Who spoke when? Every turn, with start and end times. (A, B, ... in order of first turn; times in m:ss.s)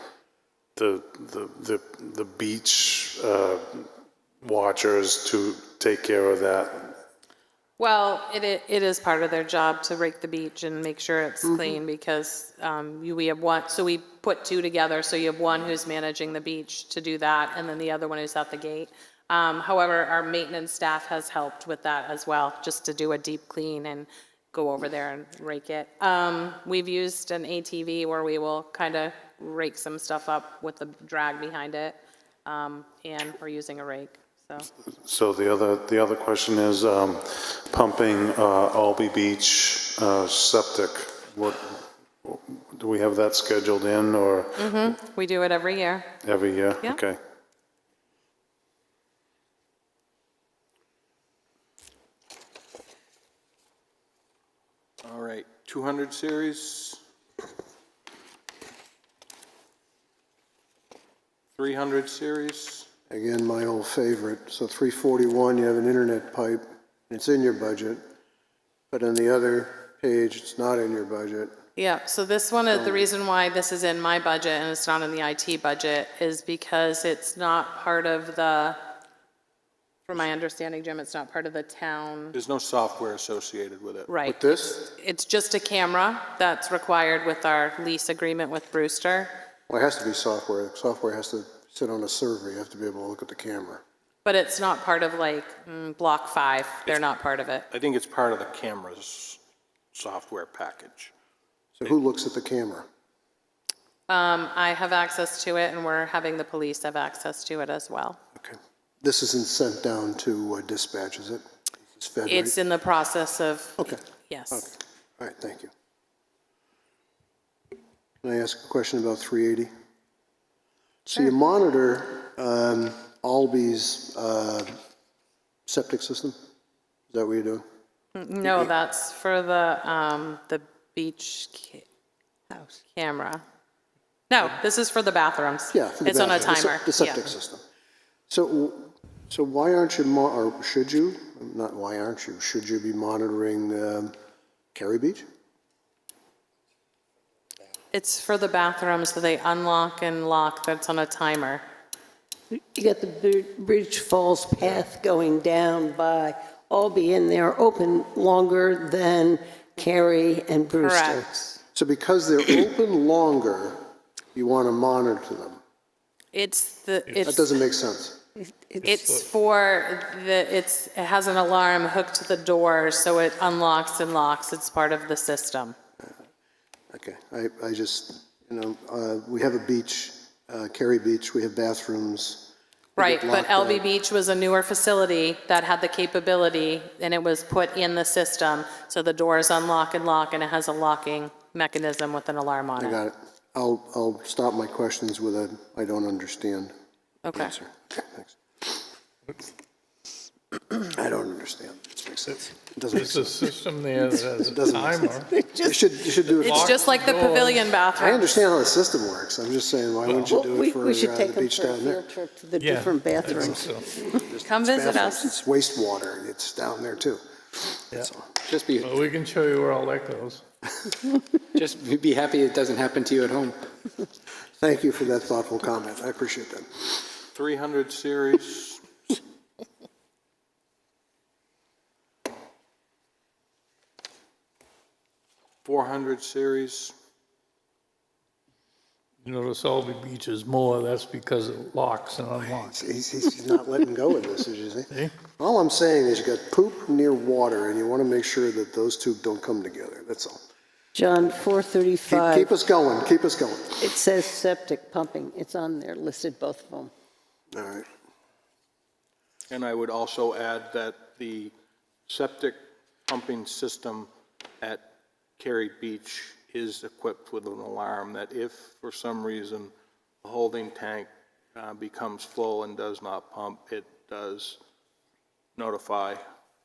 0:00.8-0:03.9 A
0:04.4-0:07.0 A
0:07.8-0:34.7 B
0:35.0-0:44.9 A
0:44.6-0:46.1 B
0:46.2-0:47.2 A
0:55.0-0:57.0 C
1:01.6-1:02.9 C
1:03.1-1:08.0 D
1:08.9-1:11.5 D
1:11.8-1:18.8 B
1:12.7-1:13.0 D
1:20.1-1:22.4 B
1:22.3-1:24.1 C
1:24.1-1:29.3 B
1:24.2-1:24.8 D
1:29.7-1:33.8 D
1:34.2-1:37.7 B
1:37.7-1:39.4 C
1:39.9-1:41.1 C
1:41.8-1:42.9 D
1:44.1-1:48.2 B
1:48.4-1:51.4 D
1:52.0-1:52.6 D
1:52.3-1:54.7 B
1:54.5-1:55.7 D
1:58.2-1:59.7 D
2:01.1-2:04.7 D
2:05.7-2:06.4 D
2:07.1-2:07.6 D
2:08.2-2:11.8 B
2:12.5-2:12.8 E
2:12.9-2:13.4 B
2:14.3-2:17.3 B
2:15.7-2:17.6 D
2:18.3-2:24.1 D
2:24.7-2:25.2 D
2:27.9-2:31.6 B
2:32.5-2:41.6 E
2:40.8-2:41.2 B
2:41.7-2:43.8 D
2:44.4-2:45.6 D
2:46.3-2:47.4 B
2:47.1-2:47.3 F
2:47.2-2:48.2 D
2:48.8-2:49.2 F
2:48.8-2:55.8 B
2:56.9-3:03.8 D
3:03.0-3:13.0 B
3:12.8-3:16.7 D
3:17.2-3:17.6 B
3:17.3-3:18.4 D
3:20.9-3:23.5 D
3:22.9-3:25.3 F
3:24.4-3:25.1 D
3:25.0-3:26.0 E
3:25.6-3:27.0 D
3:26.4-3:27.6 F
3:26.4-3:28.4 B
3:28.0-3:32.0 D
3:30.0-3:30.3 F
3:30.3-3:34.2 E
3:32.6-3:33.9 F
3:34.3-3:38.2 D
3:34.4-3:35.4 B
3:38.4-3:38.8 G
3:38.8-3:40.4 F
3:41.6-3:43.6 G
3:44.6-3:46.9 D
3:47.3-3:48.8 C
3:55.6-3:56.9 C
3:59.2-4:02.9 F
4:02.6-4:10.4 D
4:10.9-4:12.5 E
4:12.1-4:13.9 D
4:13.8-4:16.9 E
4:17.5-4:17.9 D
4:19.5-4:21.5 C
4:22.1-4:24.1 C
4:24.6-4:34.6 C
4:35.6-4:36.2 C